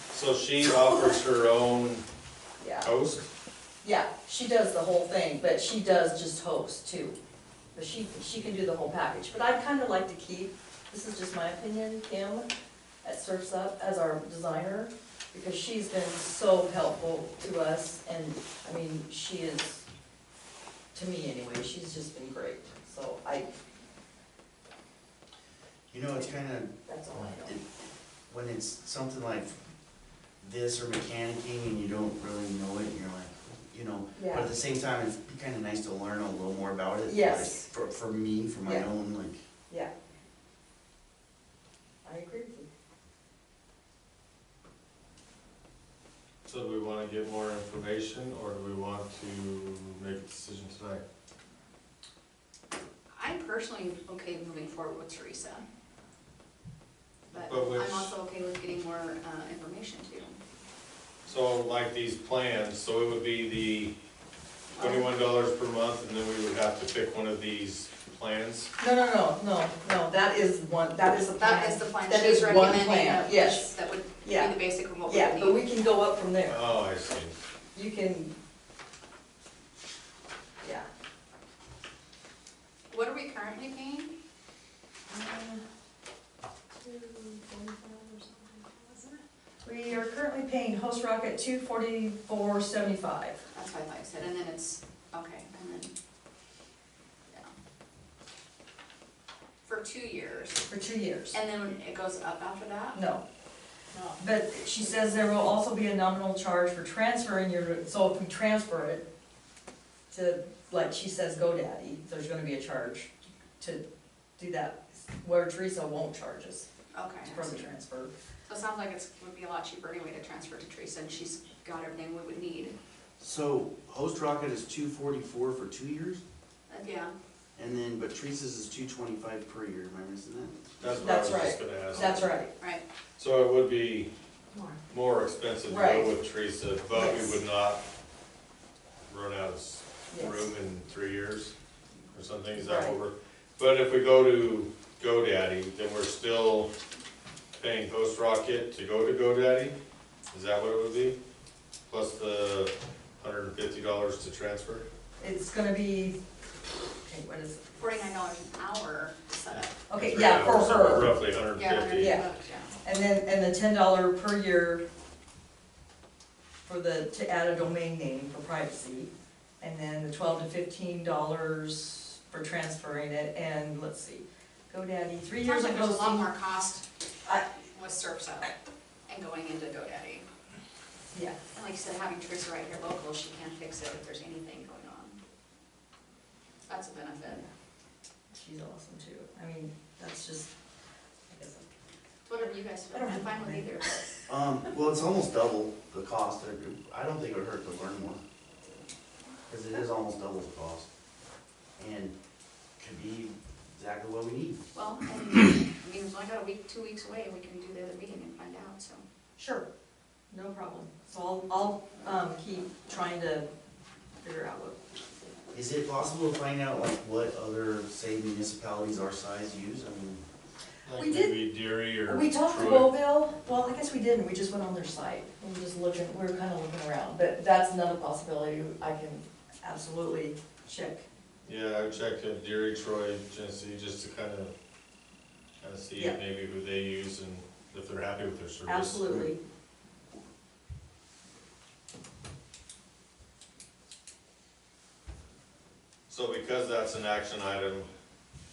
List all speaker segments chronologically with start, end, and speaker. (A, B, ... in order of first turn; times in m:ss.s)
0:00.1-0:02.0 A
0:02.6-0:02.9 B
0:02.8-0:03.3 A
0:03.8-0:07.2 B
0:07.8-0:12.5 B
0:13.0-0:19.9 B
0:21.0-0:23.5 B
0:25.9-0:27.6 C
0:26.9-0:27.6 B
0:28.3-0:29.6 C
0:30.4-0:39.4 C
0:34.2-0:34.5 B
0:37.1-0:37.7 B
0:42.0-0:42.7 B
0:46.4-0:51.0 A
0:53.1-0:55.6 D
0:57.3-1:00.4 D
0:57.5-0:58.1 A
1:01.3-1:03.9 A
1:04.8-1:05.1 D
1:04.8-1:08.7 A
1:08.8-1:13.7 B
1:11.4-1:15.6 D
1:14.2-1:16.6 B
1:16.5-1:17.4 A
1:17.8-1:18.3 B
1:20.6-1:20.9 B
1:22.9-1:24.1 D
1:25.1-1:25.6 B
1:26.8-1:29.2 D
1:29.6-1:33.4 B
1:33.5-1:35.9 D
1:39.6-1:40.7 D
1:40.7-1:41.4 B
1:41.3-1:43.0 D
1:42.9-1:43.2 B
1:43.9-1:44.2 D
1:44.2-1:49.0 B
1:50.1-1:53.8 B
1:54.4-1:56.7 B
1:56.9-1:57.7 D
1:57.2-1:58.1 B
1:58.5-2:02.8 D
2:03.2-2:06.2 C
2:06.7-2:07.1 D
2:07.6-2:10.9 C
2:10.8-2:12.4 A
2:11.0-2:12.5 B
2:13.2-2:14.1 A
2:14.5-2:14.8 B
2:14.9-2:17.8 A
2:15.7-2:16.1 B
2:16.9-2:17.4 B
2:19.1-2:21.5 A
2:20.1-2:20.5 B
2:22.1-2:26.7 A
2:22.6-2:23.0 B
2:27.6-2:29.8 A
2:30.3-2:31.2 A
2:31.9-2:34.9 A
2:35.2-2:36.2 B
2:37.0-2:37.6 B
2:37.8-2:39.8 D
2:39.9-2:41.2 B
2:39.9-2:42.2 A
2:41.5-2:42.8 D
2:42.0-2:42.3 B
2:42.8-2:44.8 B
2:46.6-2:56.3 B
2:55.4-2:56.8 D
2:57.7-2:58.5 D
2:59.1-3:00.3 D
3:01.5-3:05.2 D
3:06.7-3:07.4 D
3:08.3-3:10.5 B
3:11.3-3:11.7 B
3:12.3-3:14.2 D
3:12.4-3:14.2 B
3:14.3-3:18.2 C
3:19.5-3:20.9 C
3:21.8-3:22.2 C
3:22.8-3:24.6 C
3:24.7-3:29.0 D
3:29.4-3:29.7 B
3:30.3-3:33.5 B
3:34.2-3:34.8 B
3:35.5-3:40.2 C
3:40.8-3:43.0 A
3:41.0-3:41.4 B
3:42.0-3:51.0 B
3:51.4-3:54.5 A
3:55.6-3:59.0 A
3:58.7-3:59.4 B
4:06.1-4:07.9 A